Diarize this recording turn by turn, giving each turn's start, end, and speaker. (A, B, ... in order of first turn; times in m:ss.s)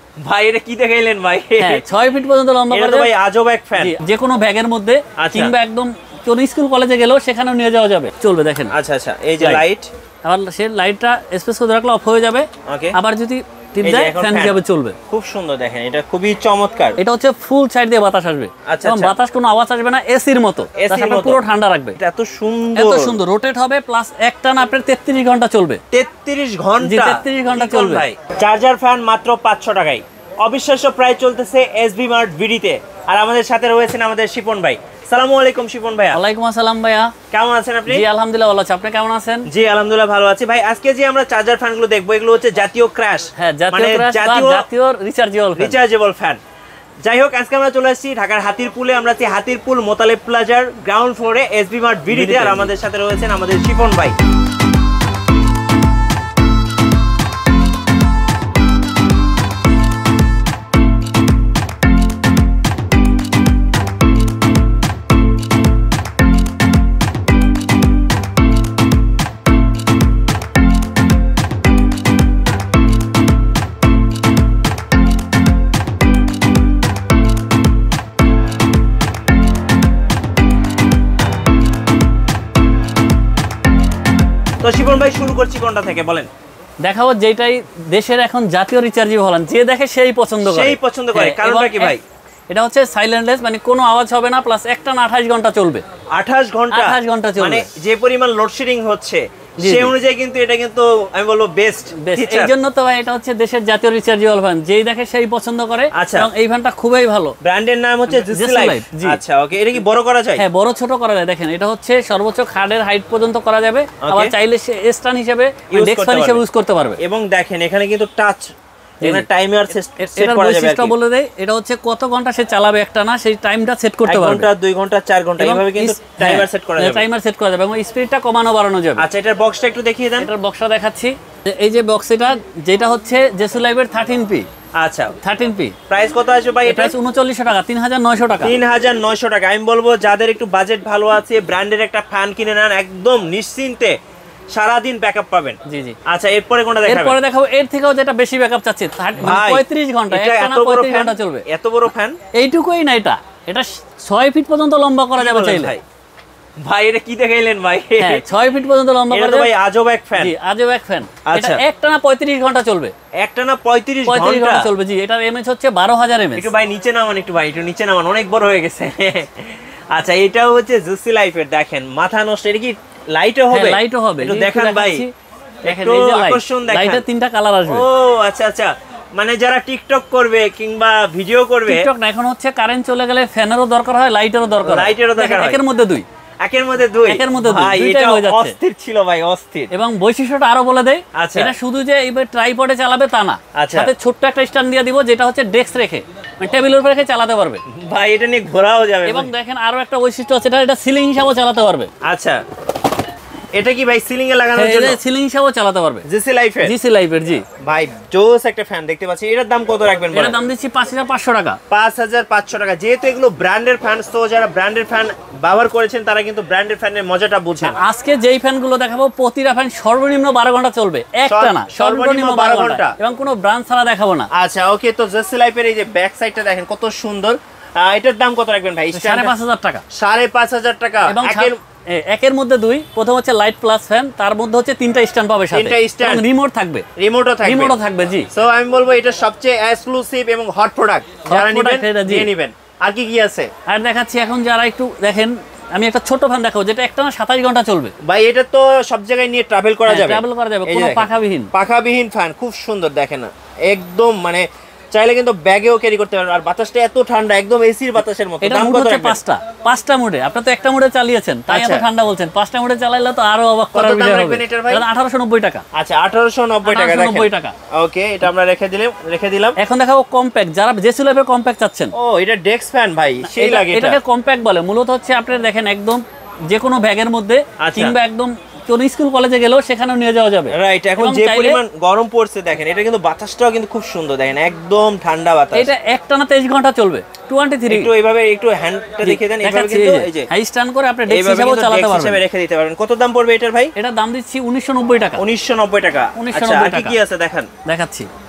0:00.2-0:01.8 A
0:01.6-0:03.1 B
0:02.7-0:04.0 A
0:03.8-0:08.7 B
0:05.2-0:05.5 A
0:08.7-0:09.9 A
0:10.2-0:15.0 B
0:12.6-0:13.0 A
0:13.8-0:17.0 A
0:17.0-0:22.0 B
0:18.6-0:19.1 A
0:20.8-0:21.4 A
0:22.0-0:23.2 A
0:22.8-0:25.8 B
0:25.9-0:36.2 A
0:26.8-0:28.0 B
0:36.1-0:37.1 B
0:37.3-0:38.0 A
0:37.9-0:39.5 B
0:39.5-0:44.7 A
0:43.4-0:45.8 B
0:45.6-0:46.4 A
0:47.0-0:54.2 A
0:52.1-0:52.7 B
1:24.6-1:26.3 A
1:26.8-1:32.0 B
1:30.4-1:32.0 A
1:32.5-1:35.8 B
1:36.1-1:42.5 A
1:36.7-1:37.7 B
1:39.6-1:39.9 B
1:42.0-1:47.3 B
1:45.9-1:46.3 A
1:47.4-1:50.4 A
1:48.1-1:49.2 B
1:50.4-1:57.0 B
1:54.0-1:54.3 A
1:55.7-1:56.4 A
1:57.0-2:00.9 A
2:00.0-2:04.5 B
2:04.0-2:07.1 A
2:05.4-2:09.0 B
2:09.0-2:10.3 A
2:10.2-2:14.4 B
2:14.8-2:15.1 A
2:15.2-2:15.8 B
2:15.9-2:16.9 A
2:16.6-2:18.6 B
2:18.4-2:24.0 A
2:24.5-2:27.2 A
2:25.7-2:26.0 B
2:26.8-2:31.4 B
2:29.2-2:32.2 A
2:32.3-2:35.8 B
2:35.2-2:35.8 A
2:36.6-2:38.2 A
2:38.0-2:39.5 B
2:39.1-2:40.3 A
2:40.2-2:42.9 B
2:41.3-2:41.6 A
2:43.2-2:44.7 A
2:44.1-2:46.5 B
2:46.3-2:55.0 A
2:53.5-2:55.1 B
2:55.6-2:57.0 A
2:55.6-2:57.8 B
2:57.7-3:01.9 A
3:01.7-3:06.0 B
3:04.6-3:05.6 A
3:06.4-3:09.7 A
3:07.1-3:08.6 B
3:09.7-3:17.6 B
3:11.1-3:11.5 A
3:13.5-3:13.9 A
3:17.7-3:19.3 A
3:19.0-3:21.9 B
3:22.0-3:22.4 A
3:23.5-3:25.0 A
3:24.5-3:26.0 B
3:26.0-3:26.7 A
3:26.6-3:27.4 B
3:27.6-3:30.4 A
3:30.1-3:31.6 B
3:31.7-3:37.8 A
3:37.6-3:44.3 B
3:41.3-3:43.0 A
3:44.3-3:49.3 A
3:48.9-3:49.8 B
3:49.9-3:51.6 A
3:51.1-3:56.8 B
3:55.5-3:56.2 A
3:57.0-3:57.8 A
3:57.4-3:58.3 B
3:58.3-4:03.5 A
4:01.3-4:02.3 B
4:03.7-4:07.9 B
4:08.0-4:19.2 A
4:09.9-4:11.5 B
4:18.4-4:25.6 B
4:21.5-4:21.9 A
4:23.7-4:24.8 A
4:25.7-4:29.6 A
4:26.7-4:27.5 B
4:29.6-4:31.9 B
4:31.9-4:34.0 A
4:33.2-4:41.6 B
4:37.6-4:38.0 A
4:40.5-4:45.7 A
4:45.5-4:47.9 B
4:47.7-4:50.3 A
4:49.0-4:52.2 B
4:51.1-4:53.7 A
4:53.8-4:55.2 B
4:55.2-4:57.5 A
4:56.2-4:57.0 B
4:57.6-4:58.1 B